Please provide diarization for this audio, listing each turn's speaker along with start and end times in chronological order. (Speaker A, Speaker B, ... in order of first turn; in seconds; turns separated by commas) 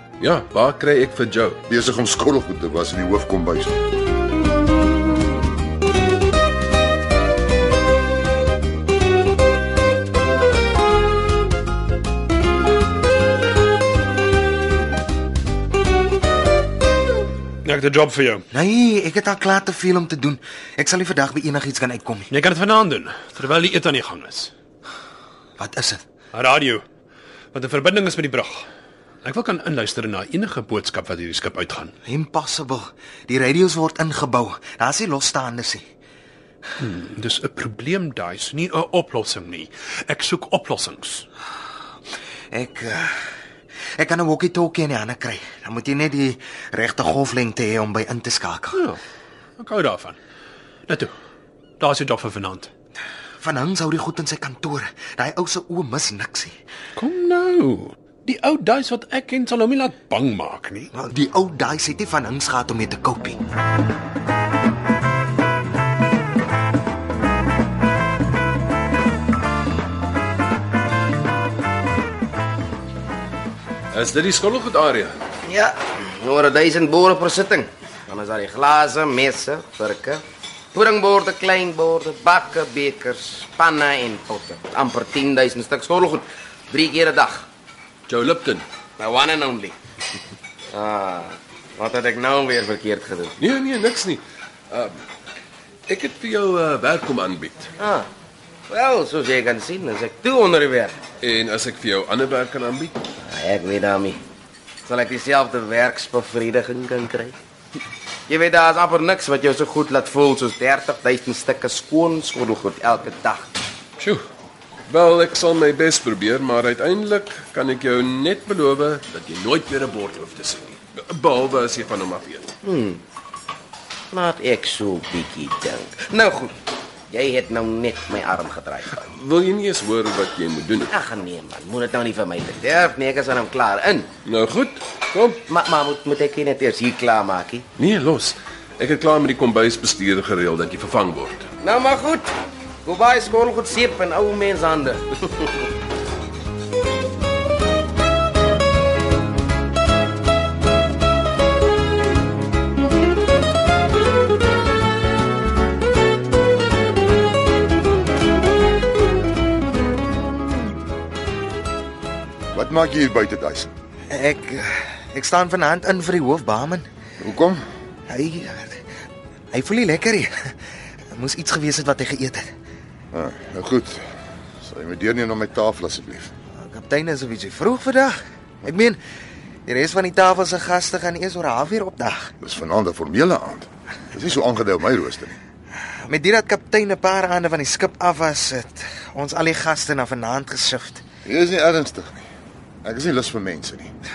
Speaker A: 0.2-1.6, Speaker B: 1.7-3.8, Speaker C: 17.6-18.5, Speaker D: 18.5-22.3, Speaker C: 22.3-24.5, Speaker D: 25.6-26.0, Speaker C: 26.3-26.8, Speaker C: 27.5-28.7, Speaker C: 29.2-31.9, Speaker D: 32.1-35.8, Speaker C: 36.8-41.3, Speaker D: 42.5-43.2, Speaker D: 44.0-48.8, Speaker C: 48.7-49.0, Speaker C: 49.6-50.2, Speaker C: 50.9-51.1, Speaker C: 51.8-52.7, Speaker D: 53.4-56.6, Speaker C: 57.0-60.9, Speaker D: 60.9-63.4, Speaker A: 73.9-75.2, Speaker E: 75.5-80.2, Speaker E: 80.7-87.5, Speaker A: 88.1-88.7, Speaker E: 89.0-89.7, Speaker E: 90.7-93.3, Speaker A: 93.4-95.0, Speaker A: 95.9-97.7, Speaker E: 98.7-101.0, Speaker A: 101.2-103.0, Speaker E: 103.3-104.2, Speaker E: 104.9-107.3, Speaker E: 108.3-113.5, Speaker A: 114.0-114.2, Speaker A: 114.9-122.5, Speaker E: 122.7-123.0, Speaker E: 124.1-126.5, Speaker E: 127.1-128.8, Speaker A: 128.9-130.9, Speaker E: 131.1-134.0, Speaker A: 134.2-135.4, Speaker E: 135.6-137.6, Speaker A: 137.8-141.5, Speaker E: 141.7-142.3, Speaker E: 142.9-145.5, Speaker B: 162.5-163.7, Speaker D: 164.1-166.9, Speaker B: 167.2-167.6, Speaker D: 168.1-168.8, Speaker D: 169.5-170.6, Speaker D: 171.1-172.5, Speaker B: 173.1-174.0, Speaker B: 174.6-176.3, Speaker D: 176.6-179.0, Speaker D: 179.7-182.3, Speaker B: 182.4-185.4, Speaker D: 186.0-191.0, Speaker B: 191.2-192.2, Speaker B: 192.8-193.9